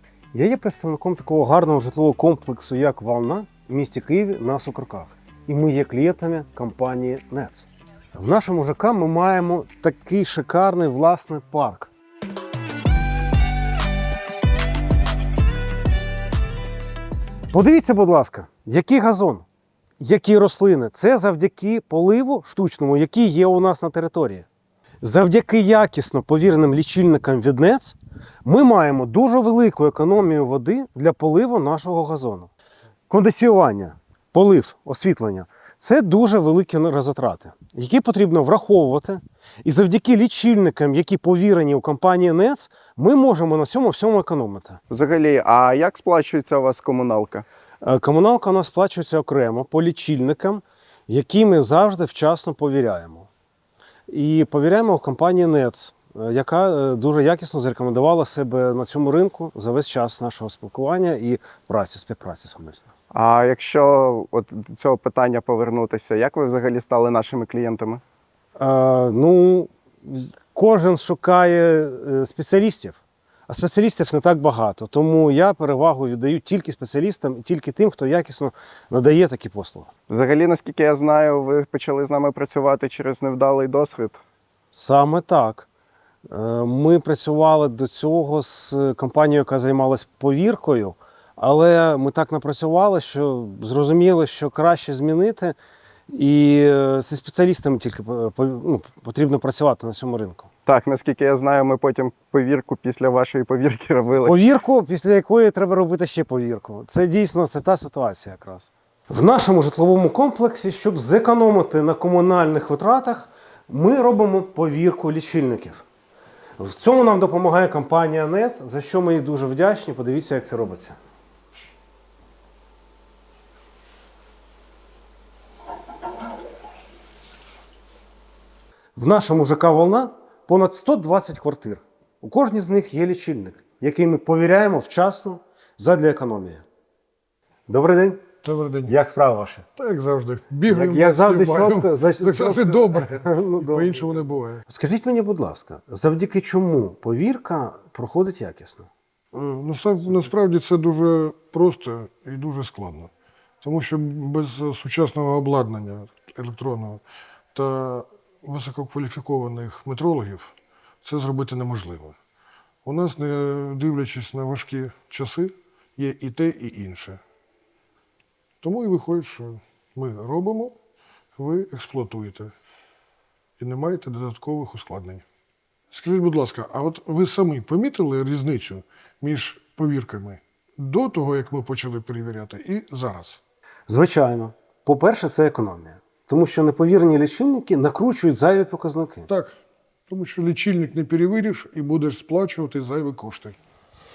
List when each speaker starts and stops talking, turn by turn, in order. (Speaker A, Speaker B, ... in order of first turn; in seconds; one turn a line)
Speaker A: 0.3-11.9
Speaker A: 17.5-19.4
Speaker A: 20.0-24.5
Speaker A: 25.0-32.5
Speaker A: 33.1-44.8
Speaker B: 44.9-47.5
Speaker A: 47.8-53.3
Speaker A: 54.1-62.9
Speaker B: 63.1-68.0
Speaker A: 68.6-79.9
Speaker B: 80.1-84.2
Speaker A: 84.7-85.7
Speaker A: 86.3-95.6
Speaker A: 96.1-100.5
Speaker B: 100.7-104.4
Speaker A: 104.2-115.8
Speaker A: 116.6-121.0
Speaker A: 129.0-136.6
Speaker A: 137.7-138.3
Speaker C: 138.4-138.9
Speaker A: 138.9-139.7
Speaker C: 139.8-144.6
Speaker A: 140.7-144.0
Speaker A: 144.7-148.9
Speaker C: 149.3-153.1
Speaker C: 153.6-157.0
Speaker C: 157.5-162.2
Speaker C: 162.8-167.2
Speaker C: 168.6-170.8
Speaker C: 171.4-172.5
Speaker C: 173.6-175.2
Speaker C: 175.9-183.4
Speaker A: 183.9-189.3
Speaker C: 189.3-189.6
Speaker C: 190.1-193.6